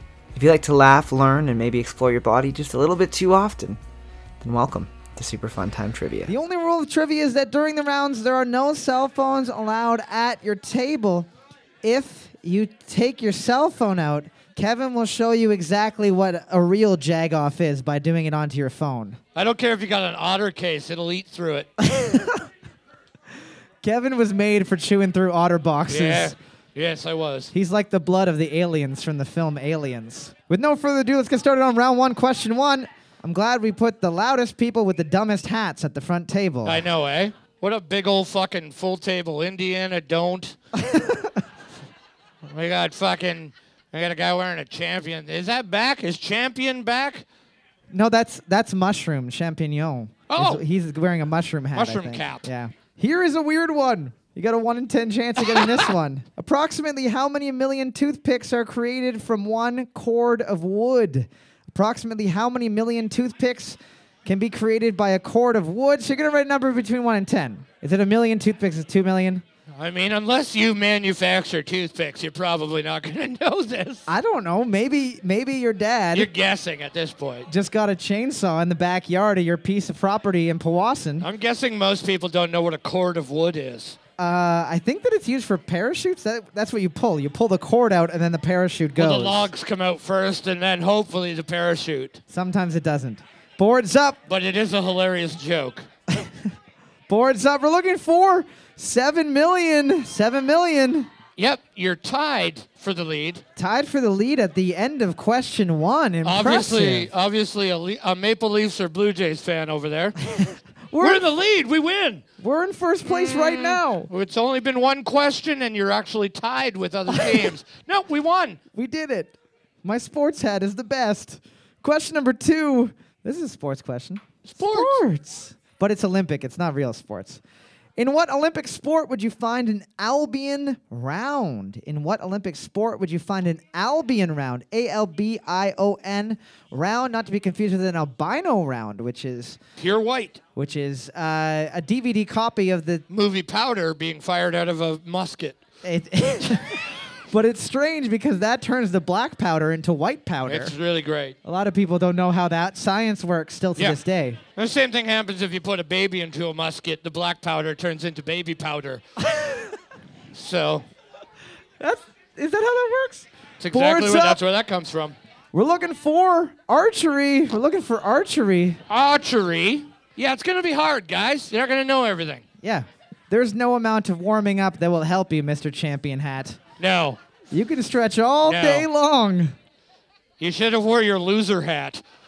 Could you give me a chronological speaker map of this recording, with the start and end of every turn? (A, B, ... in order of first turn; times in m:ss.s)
0:00.3-0:03.8 A
0:04.4-0:06.3 A
0:06.3-0:11.3 B
0:11.8-0:19.2 B
0:19.3-0:21.7 C
0:21.8-0:22.4 B
0:23.8-0:26.3 B
0:25.9-0:27.5 C
0:27.5-0:36.8 B
0:36.6-0:40.6 C
0:40.9-0:41.3 B
0:42.4-0:47.2 C
0:47.9-1:09.4 B
0:50.3-0:50.6 C
0:51.7-0:52.5 C
0:55.5-0:55.9 C
1:09.7-1:14.1 C
1:14.1-1:16.3 B
1:16.1-1:17.5 C
1:17.5-1:21.3 B
1:21.2-1:24.0 C
1:24.2-1:29.5 B
1:29.0-1:32.2 C
1:32.3-1:34.2 B
1:34.3-1:35.9 C
1:37.1-1:41.1 B
1:41.4-1:43.4 C
1:43.6-1:47.1 B
1:46.2-1:50.2 C
1:50.4-1:51.2 B
1:51.0-1:52.2 C
1:52.4-1:54.1 B
1:53.0-1:58.6 C
1:58.7-2:07.4 B
2:04.4-2:05.0 C
2:08.0-2:19.6 B
2:19.8-2:20.4 C
2:20.6-2:23.0 B
2:23.1-2:25.6 C
2:25.8-2:30.7 B
2:30.4-2:31.3 C
2:31.4-2:34.4 B
2:34.6-2:39.0 C
2:39.3-2:39.7 B
2:40.3-2:40.9 C
2:41.8-2:44.4 B
2:43.6-2:45.2 C
2:45.5-2:48.8 B
2:48.9-2:52.4 C
2:52.6-2:56.6 B
2:56.8-2:57.2 C
2:57.5-2:59.5 B
2:58.4-2:58.9 C
3:00.4-3:02.0 C